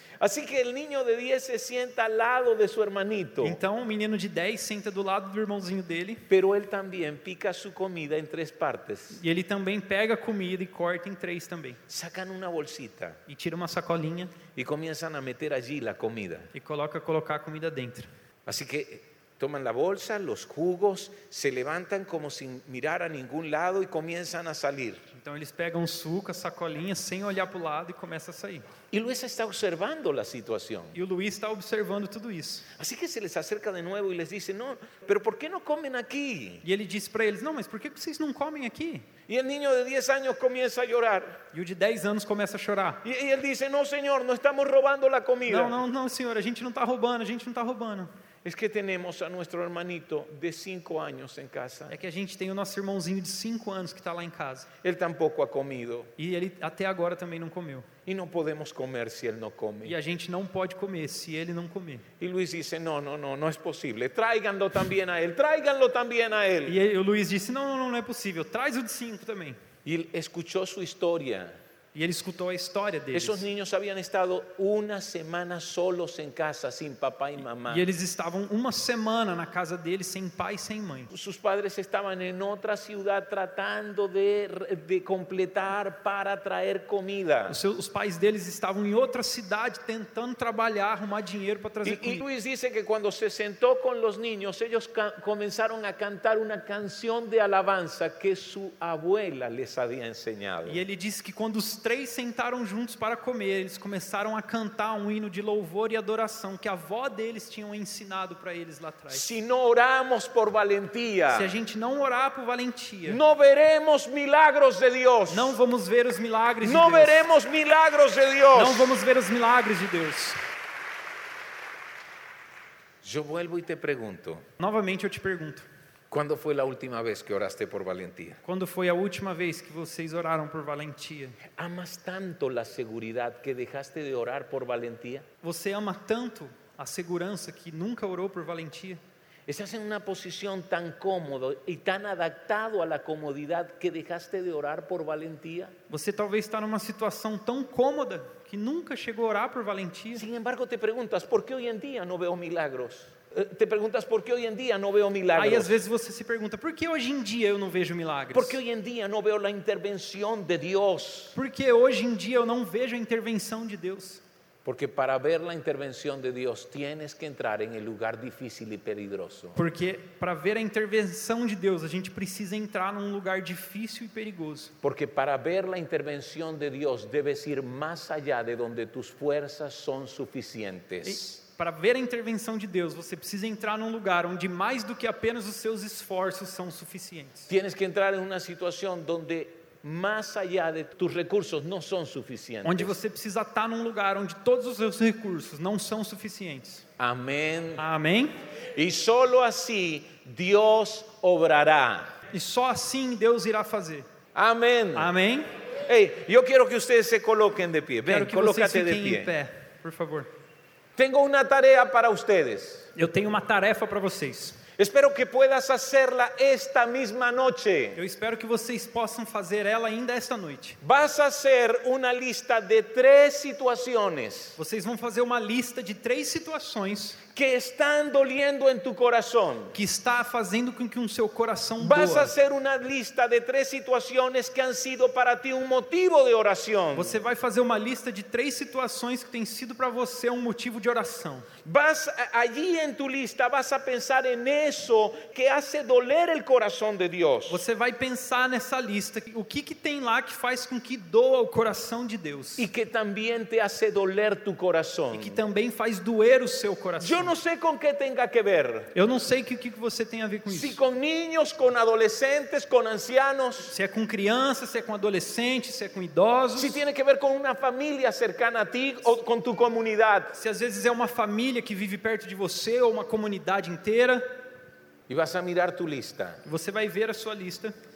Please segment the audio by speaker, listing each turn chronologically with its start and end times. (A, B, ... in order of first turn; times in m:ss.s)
0:00.2-0:03.6 A
0:03.4-0:06.2 B
0:06.3-0:09.2 A
0:09.1-0:11.8 B
0:11.9-0:13.2 A
0:13.3-0:14.4 B
0:14.6-0:16.5 A
0:16.5-0:18.1 B
0:18.5-0:25.0 A
0:25.1-0:28.7 B
0:28.9-0:31.0 A
0:30.9-0:32.7 B
0:32.8-0:36.6 A
0:36.6-0:39.1 B
0:39.3-0:41.4 A
0:41.5-0:43.0 B
0:43.0-0:45.8 A
0:45.5-0:48.1 B
0:48.4-0:51.9 A
0:51.9-0:54.7 B
0:54.8-0:56.1 A
0:56.2-0:57.9 B
0:58.1-1:00.0 A
0:59.8-1:02.0 B
1:02.2-1:06.8 A
1:06.7-1:09.6 B
1:09.8-1:11.6 A
1:11.9-1:13.4 B
1:13.1-1:17.9 A
1:17.7-1:21.1 B
1:21.1-1:27.6 A
1:27.5-1:32.2 B
1:31.8-1:40.8 A
1:40.7-1:49.2 B
1:49.1-1:51.5 A
1:51.3-1:53.2 B
1:53.1-1:55.6 A
1:55.3-1:57.2 B
1:56.6-1:58.9 A
1:58.5-2:00.4 B
2:03.0-2:04.4 A
2:04.6-2:05.7 B
2:06.1-2:08.4 A
2:08.4-2:11.4 B
2:11.6-2:15.3 A
2:15.4-2:19.0 B
2:19.5-2:25.7 A
2:25.9-2:30.2 B
2:30.2-2:35.8 A
2:35.3-2:38.6 B
2:38.3-2:41.4 A
2:41.4-2:44.2 B
2:44.6-2:49.6 A
2:49.6-2:54.7 B
2:54.8-3:01.2 A
3:01.0-3:07.5 B
3:07.5-3:13.0 A
3:12.6-3:16.8 B
3:17.0-3:17.8 A
3:17.8-3:18.3 B
3:18.8-3:22.2 A
3:22.3-3:24.1 B
3:24.4-3:25.1 A
3:25.0-3:25.5 B
3:25.9-3:29.3 A
3:28.1-3:30.3 B
3:31.0-3:32.9 A
3:33.0-3:34.6 B
3:34.8-3:38.0 A
3:38.0-3:40.8 B
3:40.8-3:44.6 A
3:44.6-3:47.2 B
3:47.3-3:49.8 A
3:49.7-3:52.4 B
3:51.8-3:57.1 A
3:56.9-4:01.5 B
4:01.6-4:07.6 A
4:07.5-4:12.7 B
4:12.6-4:15.4 A
4:15.1-4:17.3 B
4:17.0-4:18.9 A
4:18.9-4:20.8 B
4:20.5-4:23.7 A
4:23.7-4:26.8 B
4:26.6-4:30.4 A
4:30.4-4:34.4 B
4:35.1-4:36.4 A
4:36.4-4:37.8 B